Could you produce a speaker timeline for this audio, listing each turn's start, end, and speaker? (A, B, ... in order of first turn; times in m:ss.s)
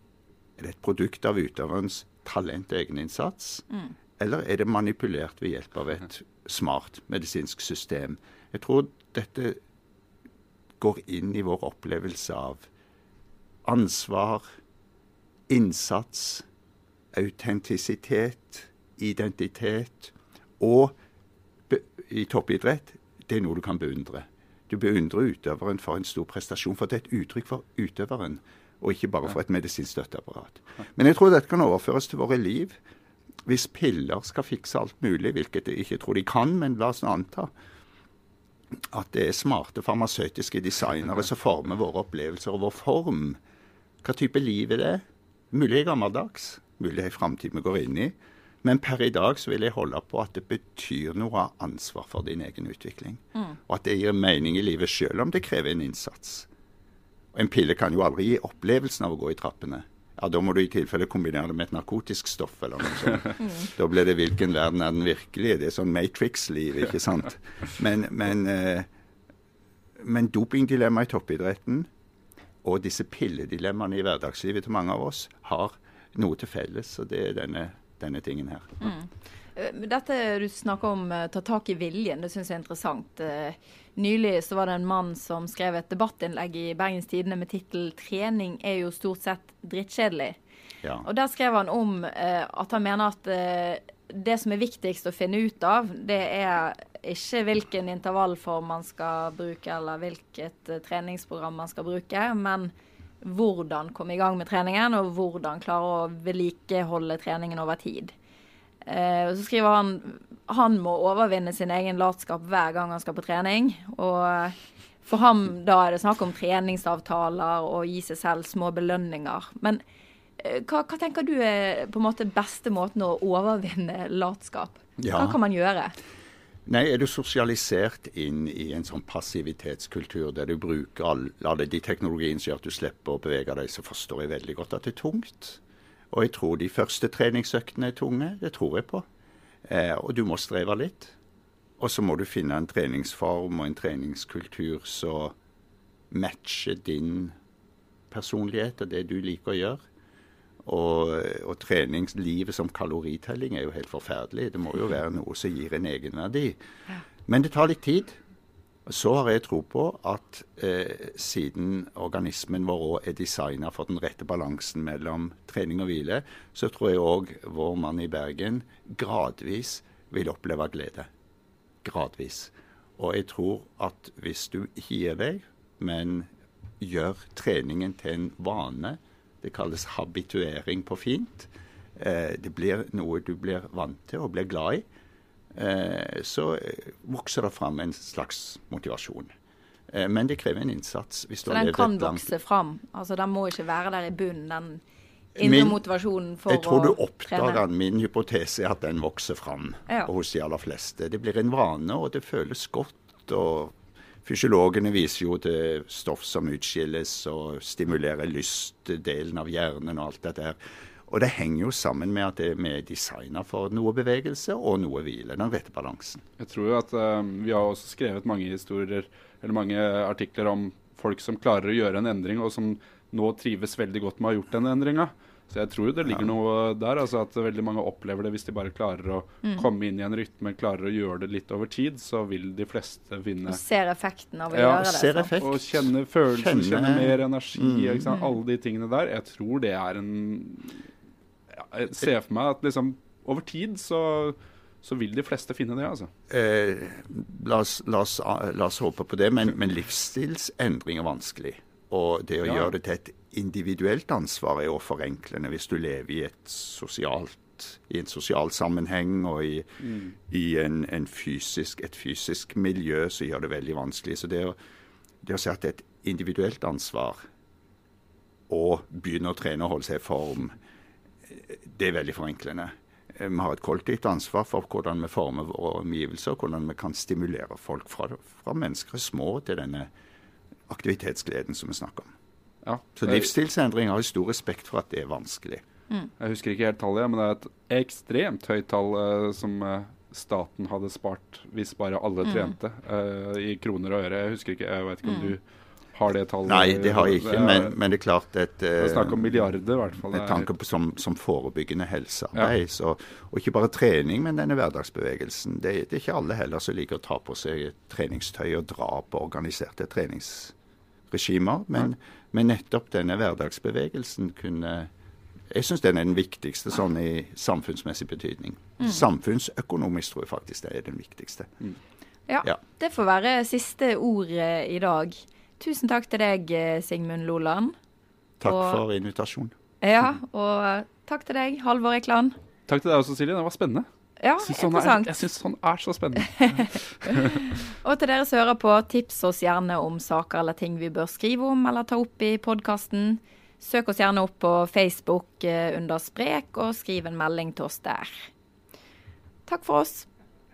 0:00.6-0:03.6 A
0:04.2-0:09.6 A
0:10.8-0:12.6 A
0:13.6-0:14.4 A
0:15.5-0:16.4 A
0:17.1-0:21.0 A
0:21.7-0:32.8 A
0:33.4-0:37.5 A
0:38.9-0:43.4 A
0:44.0-0:56.5 A
0:57.3-1:08.9 A
1:03.4-1:03.7 B
1:10.0-1:11.9 A
1:12.6-1:18.9 A
1:18.8-1:30.4 B
1:31.0-1:48.1 B
1:48.8-1:59.8 B
2:00.4-2:06.0 B
2:05.0-2:05.4 A
2:06.6-2:15.6 A
2:16.1-2:19.0 A
2:19.6-2:21.1 A
2:21.8-2:25.3 A
2:26.1-2:27.3 A
2:28.1-2:29.8 A
2:30.6-2:36.6 A
2:37.2-2:38.2 A
2:38.8-2:51.1 A
2:51.8-3:04.8 A
3:05.5-3:09.3 A
3:09.9-3:12.3 A
3:11.4-3:14.8 B
3:15.4-3:15.8 A
3:15.4-3:17.6 B
3:16.5-3:36.2 A
3:36.4-3:53.6 C
3:53.5-3:55.3 B
3:54.5-3:54.8 C
3:54.7-3:58.1 A
3:55.4-4:00.9 C
3:58.1-3:58.3 B
4:01.5-4:06.1 C
4:06.3-4:19.6 A
4:12.4-4:12.7 C
4:19.8-4:20.1 C
4:20.2-4:24.6 A
4:25.2-4:27.2 A
4:28.5-4:30.6 A
4:31.2-4:39.9 A
4:40.7-4:42.1 A
4:42.6-4:43.3 C
4:43.0-4:45.6 A
4:46.2-4:55.4 C
4:52.3-4:52.5 B
4:55.0-4:55.3 B
4:55.9-4:57.7 C
4:56.4-4:59.5 A
4:58.8-5:00.5 C
5:00.1-5:10.5 A
5:11.1-5:14.9 A
5:15.5-5:21.6 A
5:22.3-5:27.7 B
5:28.4-5:29.5 A
5:28.4-5:28.8 B
5:29.8-5:32.3 B
5:32.7-5:33.8 C
5:34.2-5:35.3 B
5:34.4-5:37.5 C
5:36.3-5:48.3 B
5:49.5-5:50.1 B